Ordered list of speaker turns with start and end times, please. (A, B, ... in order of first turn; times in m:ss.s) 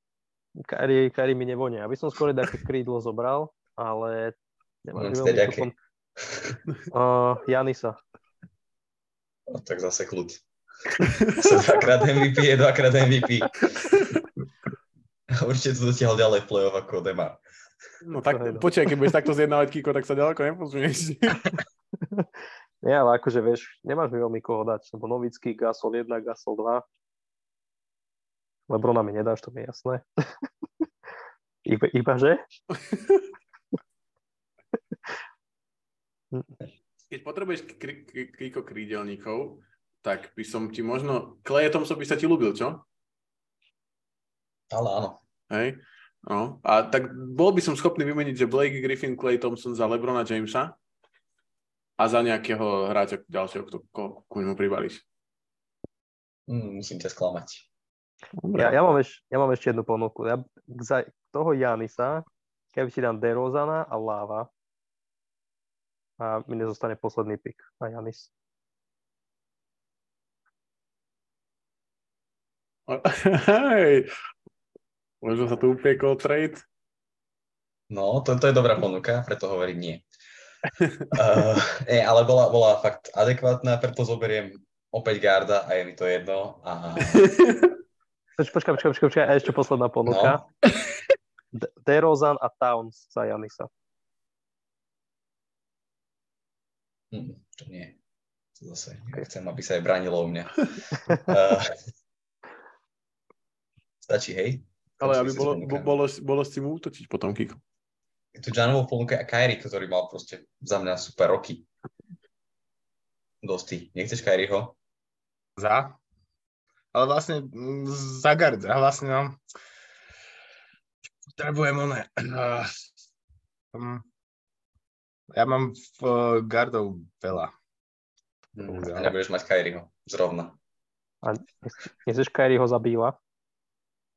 0:00.6-0:05.7 A
0:04.9-0:05.7 B
0:06.9-0:08.0 A
0:09.5-0:14.1 B
0:11.2-0:11.5 C
0:15.3-0:17.4 B
0:18.0-0:21.6 C
0:18.2-0:18.7 A
0:22.8-0:26.8 A
0:28.7-0:30.4 A
0:31.6-0:32.4 A
0:32.9-0:33.2 C
0:37.1-0:42.8 C
0:44.7-0:45.2 B
0:45.5-0:50.8 C
0:52.0-0:55.0 C
0:56.5-0:57.7 B
0:58.4-1:04.5 A
1:06.2-1:08.3 A
1:12.9-1:14.1 C
1:15.2-1:16.6 C
1:17.9-1:20.0 B
1:20.8-1:21.1 C
1:21.1-1:27.4 B
1:27.1-1:27.7 C
1:28.4-1:30.4 A
1:30.0-1:30.4 B
1:31.5-1:33.7 A
1:37.1-1:38.0 B
1:38.6-1:41.7 B
1:44.0-1:45.9 B
1:45.0-1:47.6 C
1:48.3-1:51.7 B
1:53.4-1:54.8 B
1:55.6-1:56.0 D
1:56.9-1:59.4 D
2:01.3-2:02.7 D
2:03.7-2:04.0 D
2:05.3-2:07.5 D
2:08.6-2:10.6 B
2:08.6-2:09.2 D
2:11.2-2:13.2 A